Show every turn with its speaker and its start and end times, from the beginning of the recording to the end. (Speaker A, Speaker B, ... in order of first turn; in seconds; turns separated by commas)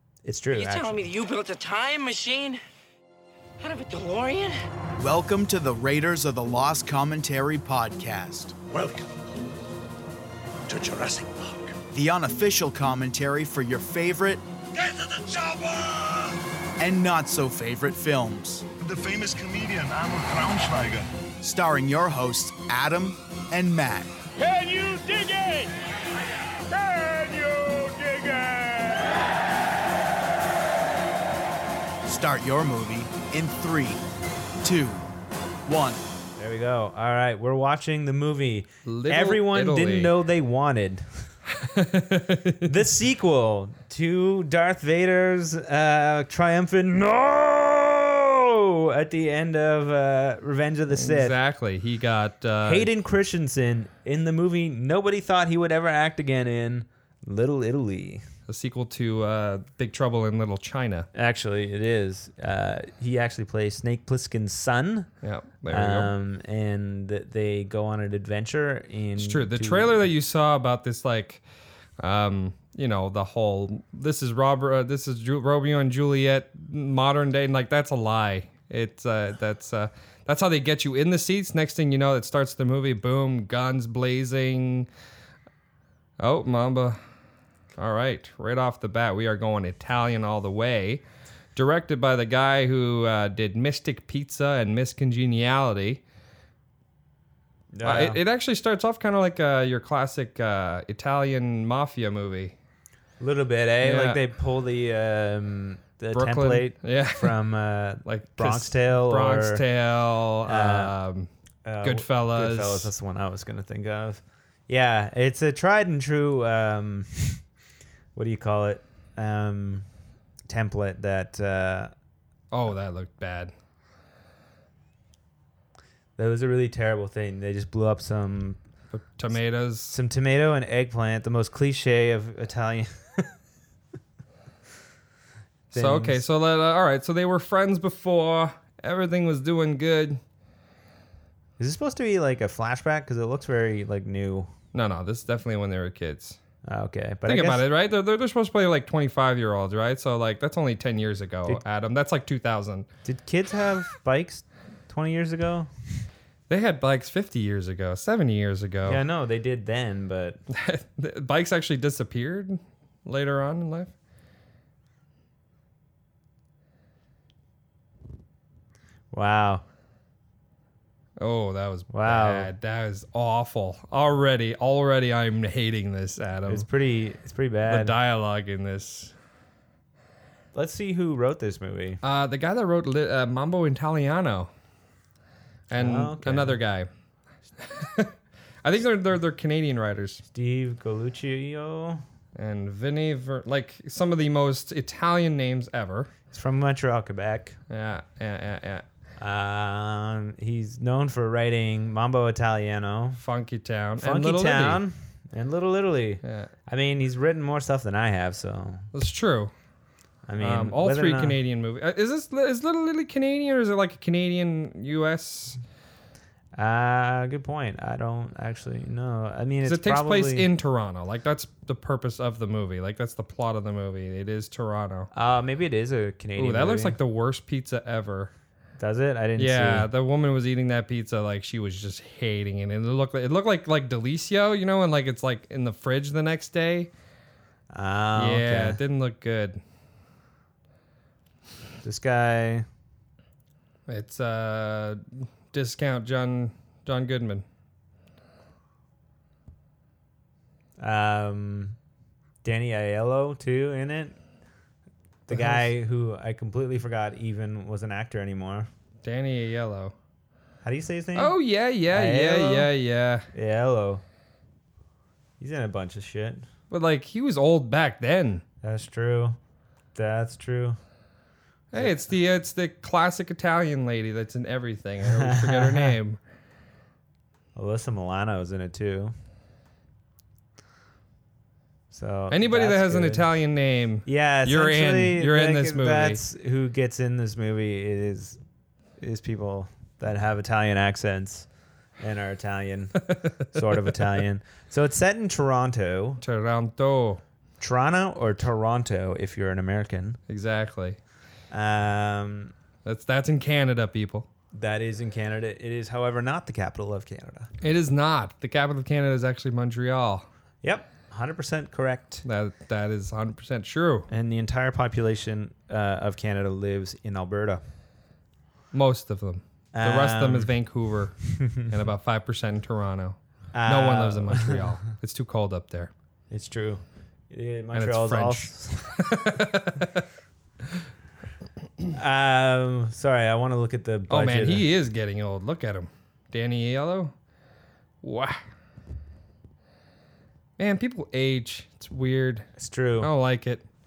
Speaker A: 0.2-1.1, Speaker B: 0.5-2.6, Speaker B: 3.6-4.6, Speaker C: 5.0-8.9, Speaker D: 10.7-11.8, Speaker C: 11.9-14.4, Speaker D: 14.8-16.4, Speaker C: 16.8-18.7, Speaker D: 18.8-21.1, Speaker C: 21.4-24.1, Speaker D: 24.4-25.7, Speaker D: 26.7-29.2, Speaker C: 32.0-34.0, Speaker C: 34.6-35.1, Speaker C: 35.6-36.0, Speaker A: 36.4-41.3, Speaker E: 38.8-40.1, Speaker E: 41.5-42.8, Speaker A: 42.6-51.4, Speaker E: 50.9-52.9, Speaker A: 52.6-58.2, Speaker E: 58.5-61.1, Speaker A: 61.1-65.1, Speaker E: 65.2-66.1, Speaker A: 65.7-70.0, Speaker E: 69.2-71.4, Speaker E: 72.0-84.9, Speaker E: 86.2-87.0, Speaker E: 87.8-91.0, Speaker E: 91.5-96.0, Speaker A: 97.7-98.2, Speaker E: 97.8-102.5, Speaker A: 103.2-109.6, Speaker E: 103.8-104.2, Speaker E: 106.1-107.3, Speaker E: 108.0-111.3, Speaker A: 110.4-111.0, Speaker A: 111.6-117.4, Speaker E: 111.8-112.9, Speaker A: 118.1-119.8, Speaker A: 120.5-121.9, Speaker E: 122.5-123.5, Speaker A: 126.2-128.6, Speaker E: 128.9-129.9, Speaker A: 129.9-133.3, Speaker A: 135.7-136.2, Speaker E: 135.7-140.2, Speaker A: 141.6-144.5, Speaker E: 144.7-146.4, Speaker A: 146.6-147.6, Speaker E: 147.2-152.9, Speaker A: 153.0-155.7, Speaker E: 156.5-159.0, Speaker A: 158.8-160.4, Speaker E: 160.5-163.9, Speaker A: 169.1-169.6, Speaker E: 171.2-176.7, Speaker A: 171.9-172.5, Speaker A: 176.5-177.9, Speaker E: 177.7-179.1, Speaker A: 180.5-182.0, Speaker E: 182.0-184.5, Speaker E: 185.7-186.9, Speaker A: 185.7-186.6, Speaker E: 187.6-190.2, Speaker A: 190.3-192.0, Speaker E: 192.3-196.1, Speaker A: 196.3-197.6, Speaker E: 197.7-198.8, Speaker A: 199.2-203.2, Speaker E: 203.2-204.8, Speaker A: 204.0-208.9, Speaker E: 206.2-206.5, Speaker E: 208.9-209.5, Speaker A: 210.3-211.4, Speaker E: 210.4-215.6, Speaker A: 216.6-220.5, Speaker E: 219.6-225.1, Speaker A: 225.1-227.0, Speaker E: 226.3-228.3, Speaker A: 228.8-229.9, Speaker E: 229.4-236.9, Speaker A: 237.7-238.8, Speaker E: 238.1-239.6, Speaker A: 241.8-242.7, Speaker E: 243.9-247.4, Speaker A: 250.8-251.8, Speaker A: 252.4-254.2, Speaker A: 255.3-258.7, Speaker E: 255.3-255.7, Speaker E: 259.0-259.9, Speaker A: 260.6-261.4, Speaker E: 261.1-263.3, Speaker A: 261.9-262.7, Speaker A: 263.3-264.0, Speaker A: 265.4-266.4, Speaker E: 266.7-268.4, Speaker A: 268.6-269.4, Speaker A: 269.9-270.8, Speaker E: 271.7-276.2, Speaker A: 271.7-272.0, Speaker A: 275.0-275.9, Speaker A: 277.6-279.1, Speaker A: 281.9-283.3, Speaker E: 282.3-286.2, Speaker A: 284.1-288.4, Speaker A: 289.0-291.5, Speaker A: 292.0-296.2, Speaker E: 293.1-293.9, Speaker E: 296.2-297.2, Speaker A: 297.6-300.2, Speaker E: 300.3-301.0, Speaker A: 301.5-302.5, Speaker E: 302.8-304.3, Speaker A: 304.5-307.5, Speaker E: 307.6-310.3, Speaker A: 310.6-312.2, Speaker E: 312.2-314.1, Speaker A: 314.1-317.6, Speaker E: 318.7-325.9, Speaker A: 319.7-320.5, Speaker A: 321.4-321.7, Speaker A: 323.5-324.8, Speaker A: 326.3-329.4, Speaker E: 327.7-330.0, Speaker A: 331.9-334.6, Speaker E: 334.1-337.1, Speaker E: 338.0-338.4, Speaker E: 340.6-343.6, Speaker A: 342.6-343.1